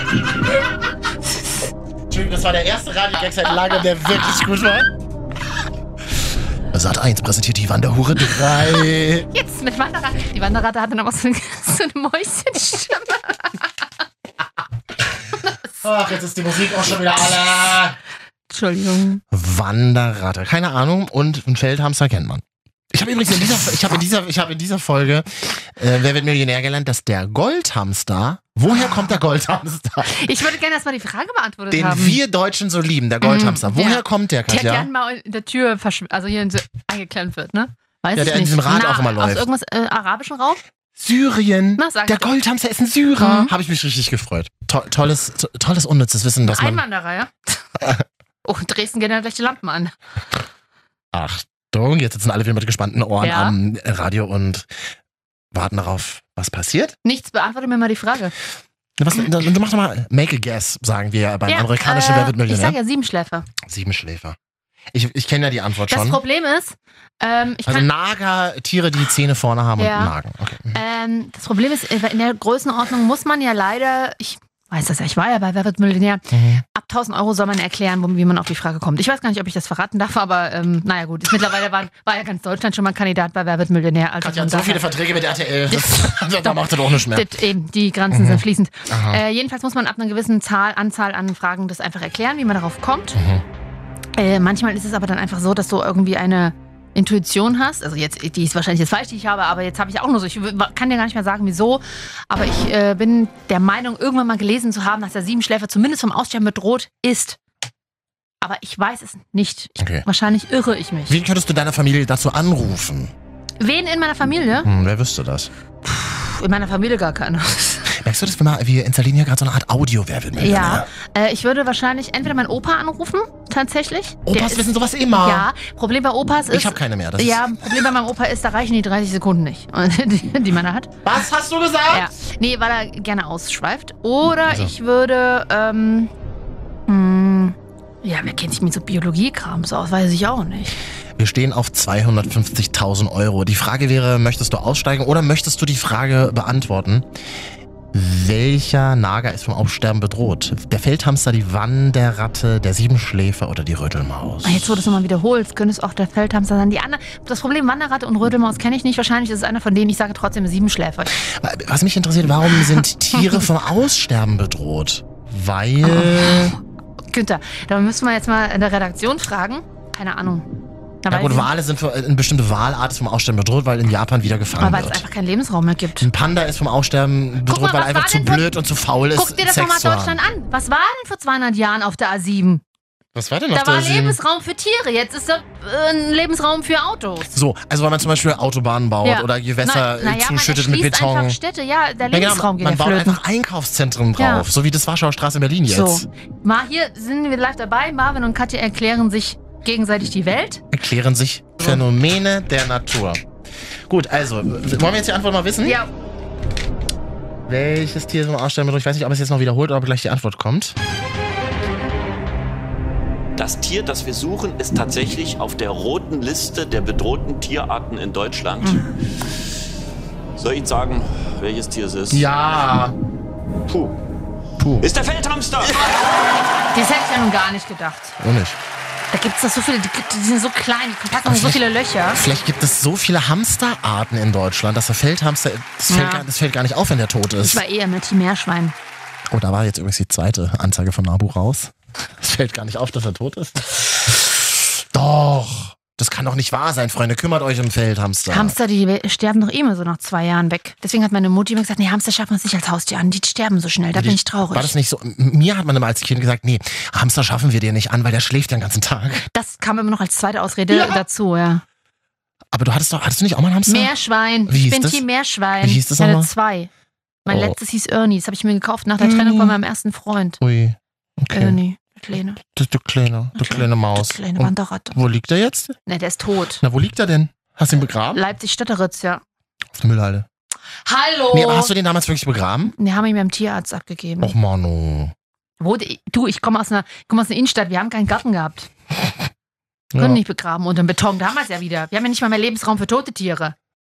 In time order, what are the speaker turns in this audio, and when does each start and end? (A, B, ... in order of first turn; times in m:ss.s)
0:02.1-0:04.9 A
0:06.7-0:09.3 A
0:09.3-0:13.6 B
0:15.8-0:18.0 A
0:18.5-0:19.2 B
0:19.3-0:30.3 A
0:28.7-0:29.1 B
0:30.1-0:32.2 B
0:31.7-0:34.9 A
0:33.2-0:40.6 B
0:38.2-0:39.5 A
0:41.0-0:46.8 A
0:41.8-0:42.3 B
0:43.2-0:43.5 B
0:46.5-0:47.3 B
0:47.8-0:48.0 A
0:48.4-0:49.9 B
0:51.1-0:54.7 A
0:53.2-0:53.6 B
0:55.5-0:57.0 A
0:57.0-0:58.3 B
0:59.0-1:02.8 A
1:01.5-1:03.5 B
1:03.6-1:04.4 A
1:04.9-1:06.2 A
1:05.9-1:07.9 B
1:07.7-1:10.8 A
1:09.8-1:10.1 B
1:10.7-1:24.9 B
1:16.3-1:16.6 A
1:24.2-1:27.3 A
1:25.7-1:33.2 B
1:28.1-1:29.2 A
1:33.1-1:33.4 A
1:34.2-1:47.4 B
1:48.4-1:51.2 B
1:49.8-1:50.1 A
1:51.1-1:53.1 A
1:53.6-1:54.7 B
1:54.6-1:55.5 A
1:55.8-1:57.9 B
1:57.9-2:00.9 A
2:00.4-2:04.6 B
2:04.3-2:05.5 A
2:05.2-2:10.9 B
2:06.5-2:07.6 A
2:11.0-2:12.1 A
2:11.9-2:16.1 B
2:14.5-2:14.7 A
2:16.9-2:20.8 B
2:21.2-2:27.1 A
2:27.9-2:34.8 A
2:34.4-2:41.2 B
2:41.2-2:46.6 A
2:45.8-2:46.5 B
2:47.1-2:50.5 B
2:51.0-2:51.5 B
2:51.1-2:55.0 A
2:54.6-2:56.1 B
2:56.0-3:00.2 A
2:57.5-2:58.5 B
2:59.2-3:02.6 B
3:03.2-3:04.2 A
3:03.5-3:07.3 B
3:07.3-3:11.4 A
3:09.0-3:13.2 B
3:12.1-3:16.1 A
3:14.2-3:14.5 B
3:15.7-3:20.6 B
3:20.7-3:23.2 A
3:23.9-3:25.8 A
3:25.6-3:25.9 B
3:27.5-3:30.8 A
3:33.4-3:38.8 C
3:40.4-3:42.2 C
3:42.1-3:43.0 A
3:43.7-3:43.9 C
3:44.6-3:44.9 A
3:44.8-3:45.7 C
3:46.7-3:48.2 B
3:48.2-3:48.6 A
3:49.1-3:52.2 B
3:51.2-3:57.6 A
3:55.9-3:56.3 B
3:57.4-3:58.8 B
3:59.3-4:08.6 A
4:08.3-4:14.7 B
4:13.9-4:19.3 A
4:19.3-4:21.6 B
4:20.7-4:21.0 A
4:22.5-4:23.9 A
4:23.7-4:26.7 B
4:24.5-4:25.0 A
4:25.6-4:26.3 A
4:27.3-4:30.4 B
4:27.3-4:27.6 A
4:29.0-4:29.6 A
4:30.4-4:31.6 A
4:31.3-4:32.4 B
4:32.4-4:35.8 A
4:33.4-4:35.0 B
4:35.9-4:36.6 B
4:36.6-4:38.2 A
4:38.1-4:39.2 B
4:39.7-4:40.3 A
4:40.9-4:41.7 B
4:41.3-4:42.7 A
4:42.8-4:44.4 B
4:44.2-4:45.1 A
4:45.6-4:48.7 B
4:49.9-4:50.2 A
4:50.0-4:53.6 B